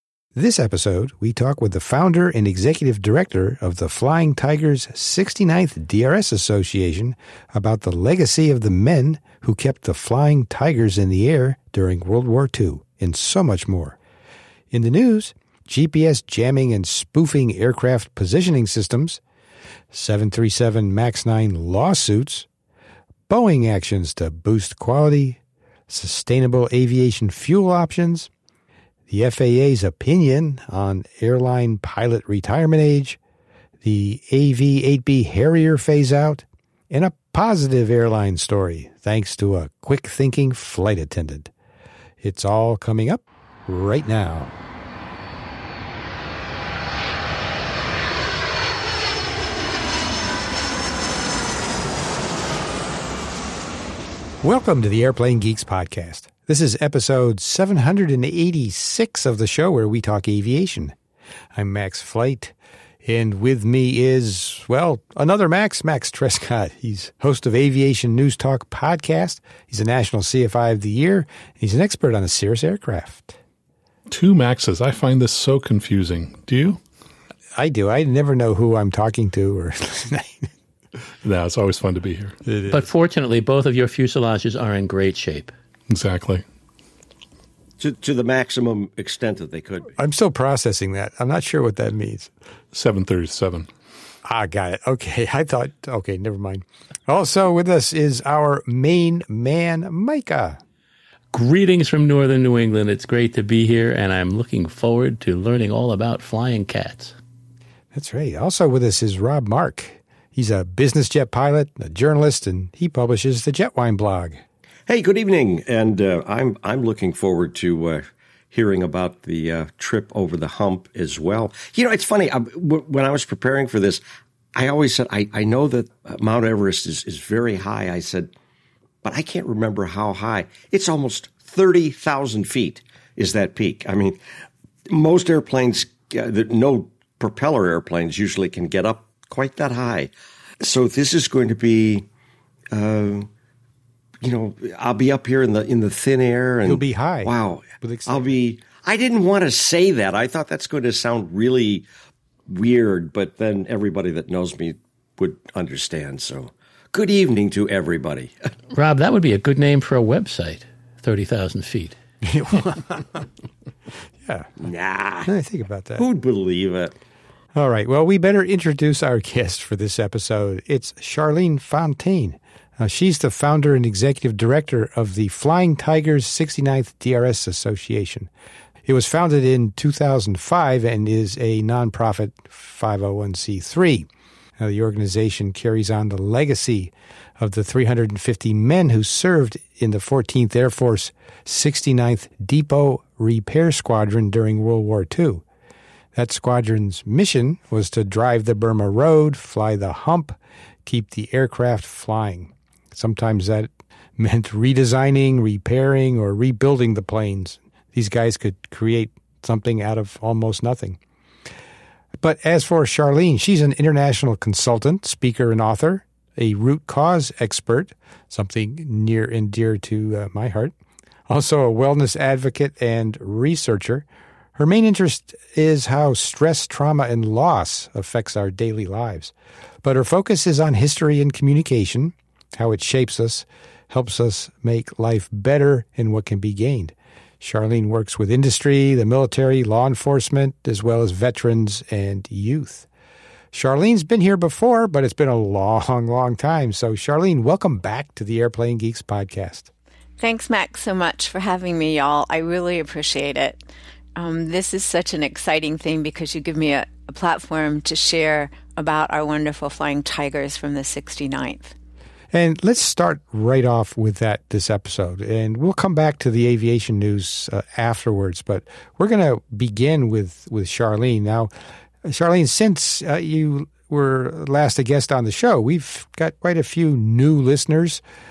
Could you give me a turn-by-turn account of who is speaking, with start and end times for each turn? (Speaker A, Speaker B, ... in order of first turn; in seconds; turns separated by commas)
Speaker A: 0.3-14.0, Speaker A: 14.7-19.2, Speaker A: 19.9-22.5, Speaker A: 23.3-28.3, Speaker A: 29.1-33.2, Speaker A: 33.8-41.5, Speaker A: 42.2-44.5, Speaker A: 54.4-61.0, Speaker A: 61.5-73.4, Speaker B: 74.1-76.8, Speaker A: 77.6-80.5, Speaker B: 81.2-82.4, Speaker A: 82.5-82.9, Speaker C: 82.7-85.5, Speaker B: 85.9-86.4, Speaker D: 87.8-89.9, Speaker A: 90.0-92.3, Speaker B: 92.7-93.7, Speaker A: 94.2-100.6, Speaker C: 101.3-107.2, Speaker A: 107.9-114.4, Speaker D: 114.9-124.0, Speaker D: 124.5-128.3, Speaker D: 129.0-134.2, Speaker D: 134.9-140.1, Speaker D: 140.6-142.1, Speaker D: 142.7-143.3, Speaker D: 144.2-151.8, Speaker A: 146.7-148.3, Speaker D: 152.5-158.3, Speaker C: 158.7-162.0, Speaker A: 162.3-163.2, Speaker D: 164.6-165.3, Speaker A: 165.2-166.1, Speaker D: 166.0-166.9, Speaker A: 167.6-178.3, Speaker A: 178.9-184.1, Speaker A: 184.6-195.4, Speaker A: 196.2-211.0, Speaker A: 212.2-220.7, Speaker A: 221.3-224.1, Speaker A: 224.6-229.3, Speaker A: 229.8-242.9, Speaker A: 243.5-249.7, Speaker E: 250.2-253.6, Speaker E: 254.2-261.7, Speaker A: 262.3-271.5, Speaker A: 272.0-278.0